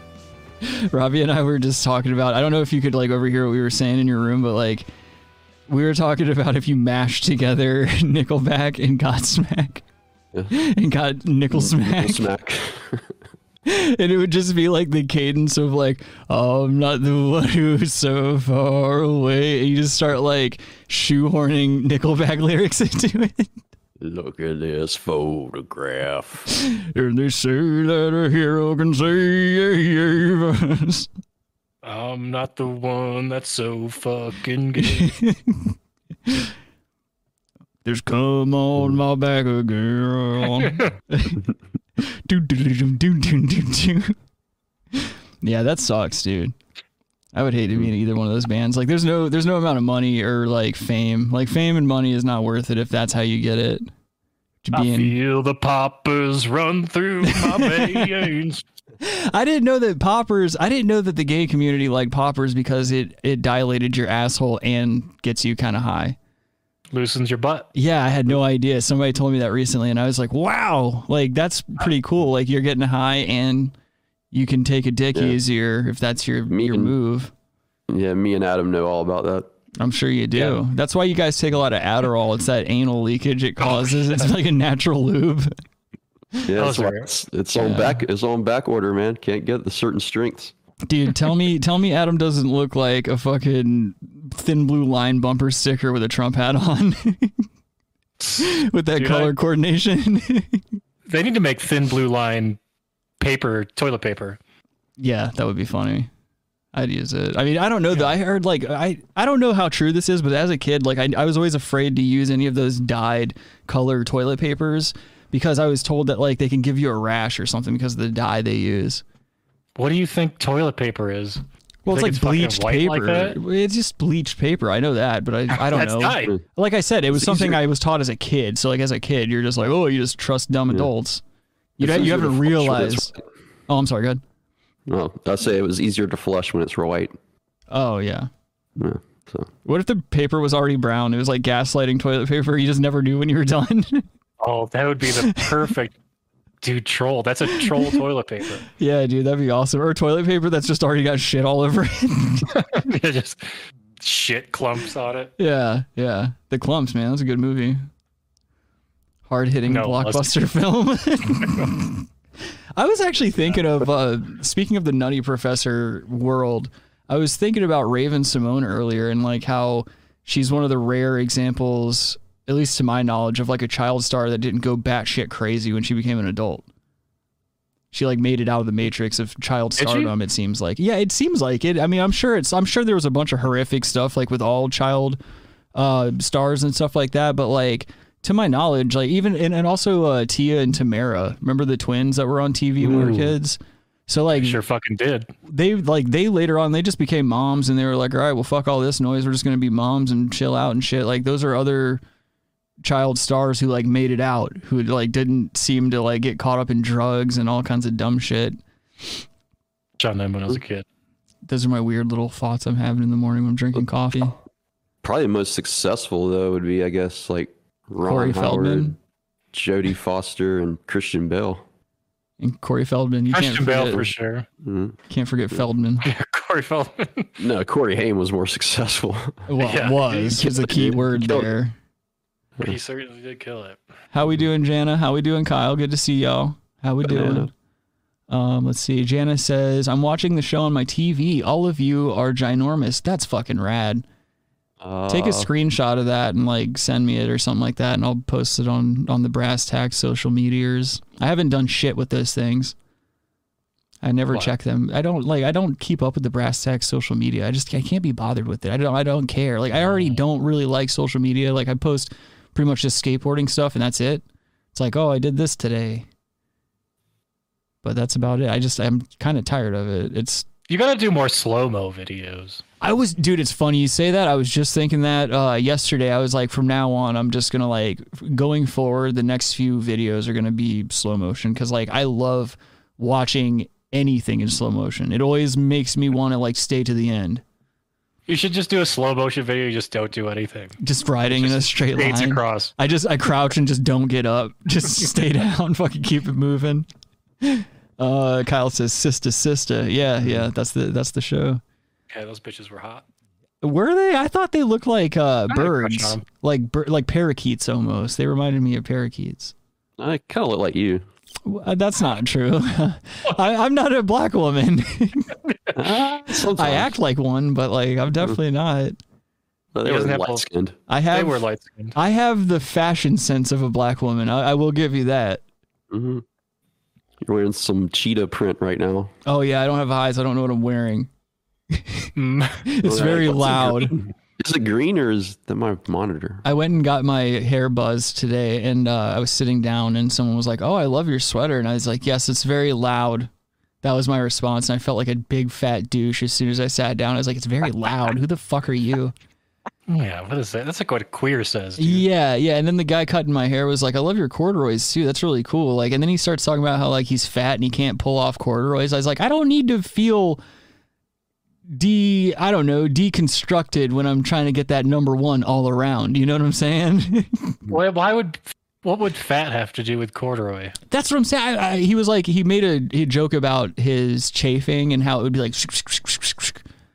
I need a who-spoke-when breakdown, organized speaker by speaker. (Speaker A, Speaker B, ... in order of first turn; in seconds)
Speaker A: 0.6-4.9, 5.7-9.8, 10.5-12.3, 13.7-23.5, 26.5-31.1, 34.8-35.8, 37.9-41.4, 42.0-44.2, 45.0-46.5, 47.3-53.9, 54.6-55.1, 57.2-58.3, 59.0-66.2, 67.8-73.7, 74.3-77.3, 79.8-85.5, 87.6-88.0, 90.9-97.4, 98.4-100.6, 105.0-106.1, 106.7-119.0, 121.8-131.2, 131.8-133.1, 133.7-134.2, 137.7-138.3, 139.7-144.1, 147.5-147.9, 148.8-152.5, 155.4-157.8, 159.3-162.1, 162.8-176.7, 177.9-185.2, 185.8-194.6, 195.5-202.0, 202.8-208.6, 211.5-214.3, 218.0-218.9, 222.4-224.1, 225.1-226.1, 229.5-231.8, 234.1-237.5, 238.3-244.1, 245.1-252.8, 254.0-266.1, 267.8-270.5, 272.8-287.4, 290.8-296.9, 297.4-301.6, 303.6-309.5, 311.4-315.3, 316.5-319.0, 320.9-321.4, 321.9-325.4, 329.3-331.1, 331.7-332.1, 332.7-333.9, 336.4-343.3, 343.8-349.1, 351.8-360.4, 361.7-367.6, 370.9-376.6
Speaker B: 11.5-13.1, 24.0-26.5, 76.5-76.9, 77.9-79.5, 86.5-90.5, 127.1-127.6, 131.8-133.2, 134.9-137.1, 138.8-139.5, 215.0-218.9, 219.5-221.6, 224.6-225.0, 227.4-229.4, 230.4-231.5, 237.0-237.5, 244.8-245.5, 310.0-311.1, 315.7-316.9, 319.7-320.8, 325.9-326.2, 327.2-329.1, 332.8-336.4
Speaker C: 31.8-35.1, 40.6-40.9, 54.7-58.6, 66.9-67.7, 83.6-84.3, 86.6-87.1, 98.2-99.3, 101.1-102.6, 103.2-104.4, 119.8-123.4, 125.5-126.3, 144.4-145.9, 146.6-148.7, 152.6-155.3, 159.7-160.4, 179.8-180.1, 192.9-193.3, 194.3-195.3, 210.0-210.9, 223.3-224.5, 226.0-227.3, 229.6-230.4, 232.6-233.8, 259.8-260.2, 270.7-272.6, 288.3-290.8, 291.3-292.7, 302.1-303.1, 305.5-306.2, 315.5-315.7, 319.8-320.5, 321.1-322.0, 332.2-332.6, 349.9-352.1, 367.7-370.8